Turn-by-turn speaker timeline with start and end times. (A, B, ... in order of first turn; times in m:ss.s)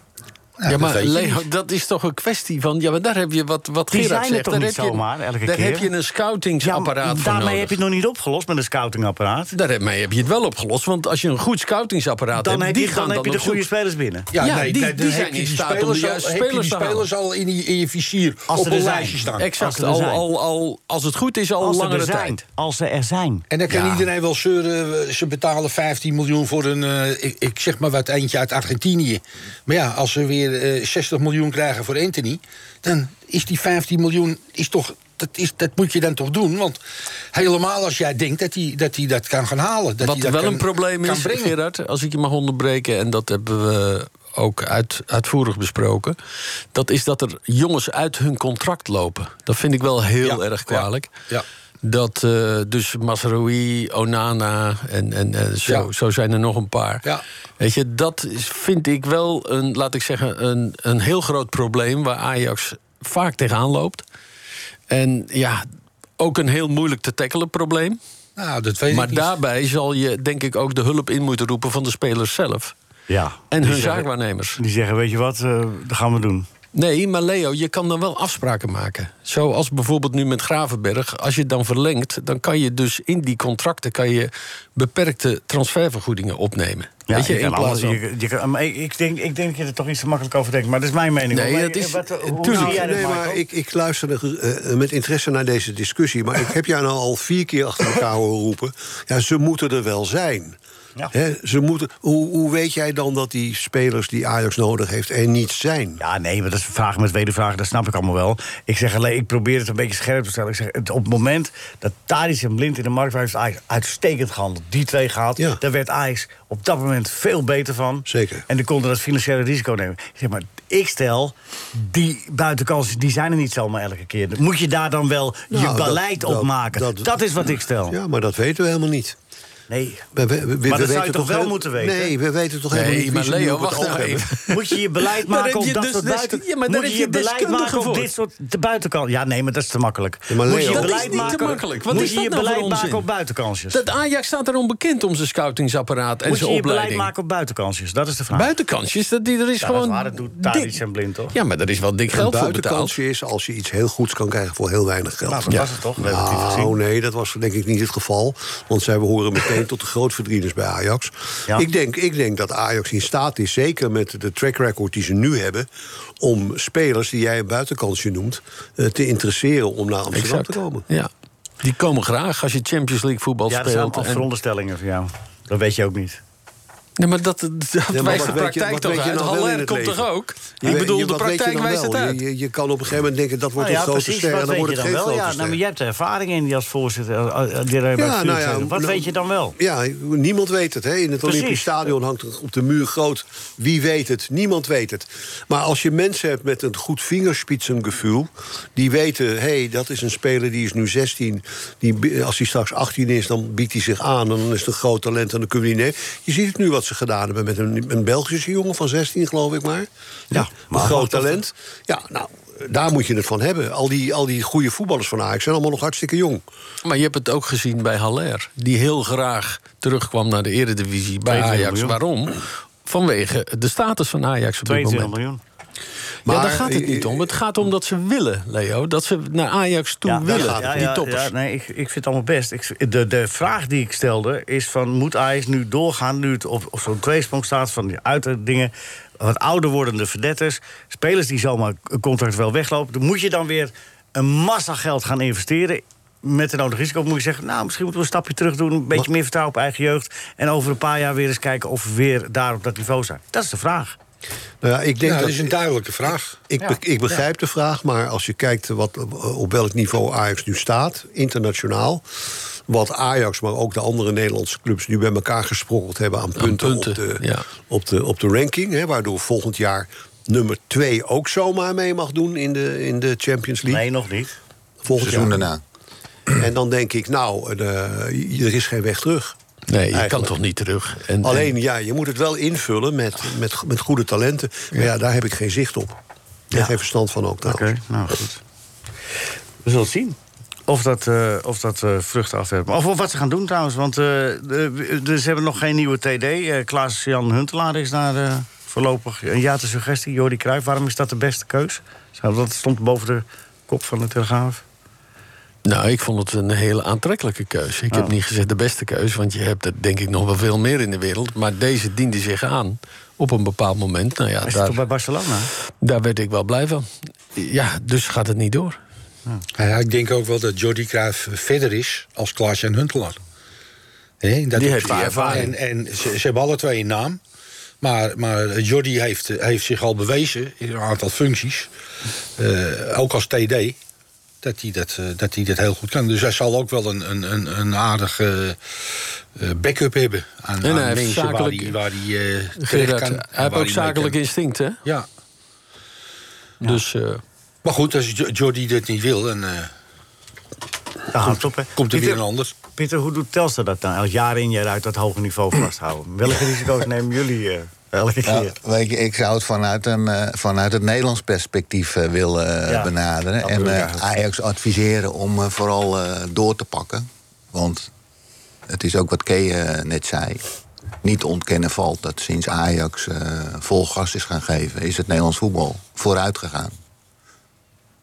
0:00.6-0:01.4 A
0:00.7-0:07.8 B
0:03.9-0:05.9 C
0:06.6-0:09.5 C
0:09.5-0:13.6 B
0:12.4-0:14.3 C
0:14.3-0:19.5 A
0:14.4-0:17.1 B
0:18.5-0:20.2 C
0:19.4-0:22.4 B
0:21.6-0:24.0 C
0:23.5-0:36.8 A
0:37.3-0:41.6 A
0:40.0-0:46.2 B
0:46.7-0:51.2 B
0:50.2-0:51.4 A
0:51.8-0:57.0 B
0:57.6-1:04.0 B
1:04.9-1:05.6 B
1:06.2-1:08.0 B
1:08.4-1:09.3 A
1:08.9-1:12.7 B
1:13.1-1:13.5 C
1:13.5-1:14.6 B
1:13.6-1:14.0 A
1:14.6-1:16.5 C
1:16.8-1:28.0 B
1:27.1-1:33.4 C
1:31.3-1:32.8 B
1:32.5-1:40.6 D
1:41.1-1:46.0 D
1:46.0-2:08.0 C
1:58.1-1:58.4 D
2:05.5-2:07.1 D
2:07.9-2:09.2 D
2:09.7-2:10.1 C
2:10.1-2:14.3 D
2:10.7-2:12.1 C
2:12.7-2:18.1 B
2:14.5-2:23.8 C
2:20.3-2:21.5 D
2:20.6-2:23.1 B
2:23.7-2:27.1 B
2:26.3-2:28.5 C
2:28.3-2:30.8 B
2:29.6-2:31.4 C
2:31.3-2:32.9 B
2:32.1-2:45.7 D
2:35.3-2:36.8 C
2:46.2-2:50.9 D
2:50.1-2:51.1 B
2:51.6-2:54.2 B
2:53.5-2:56.2 C
2:57.0-3:02.2 B
2:57.9-3:00.1 D
3:00.6-3:05.6 D
3:03.6-3:09.6 C
3:08.0-3:36.4 D
3:11.2-3:11.7 C
3:30.3-3:31.4 C
3:36.8-3:45.1 B
3:41.3-3:42.0 C
3:44.6-3:45.4 C
3:46.2-3:47.4 D
3:46.3-3:51.3 B
3:50.1-4:14.0 C
3:50.2-3:51.0 D
4:14.6-4:15.6 D
4:15.0-4:16.4 A
4:16.5-4:22.0 D
4:22.7-4:33.8 D
4:26.4-4:27.4 B
4:33.7-4:34.4 C
4:34.8-4:35.5 D
4:35.0-4:35.6 E
4:36.3-4:39.3 D
4:39.7-4:41.5 B
4:39.9-4:40.3 D
4:41.2-4:46.0 D
4:46.5-4:47.7 D
4:47.5-4:48.4 C
4:49.6-4:50.2 C
4:50.7-5:04.6 C
5:05.7-5:14.8 B
5:14.4-5:15.5 C
5:15.8-5:18.8 B
5:19.6-5:23.2 A
5:24.2-5:27.2 A
5:24.5-5:25.5 B
5:27.8-5:31.7 A
5:32.4-5:33.8 A
5:34.4-5:44.2 A
5:40.6-5:41.8 B
5:42.6-5:44.8 B
5:46.6-5:47.2 B
5:47.6-5:49.7 A
5:51.1-5:52.2 C
5:51.8-5:52.5 A
5:52.8-5:58.6 C
5:58.2-6:07.9 E
6:02.7-6:04.1 C
6:08.7-6:10.4 E
6:11.0-6:16.8 E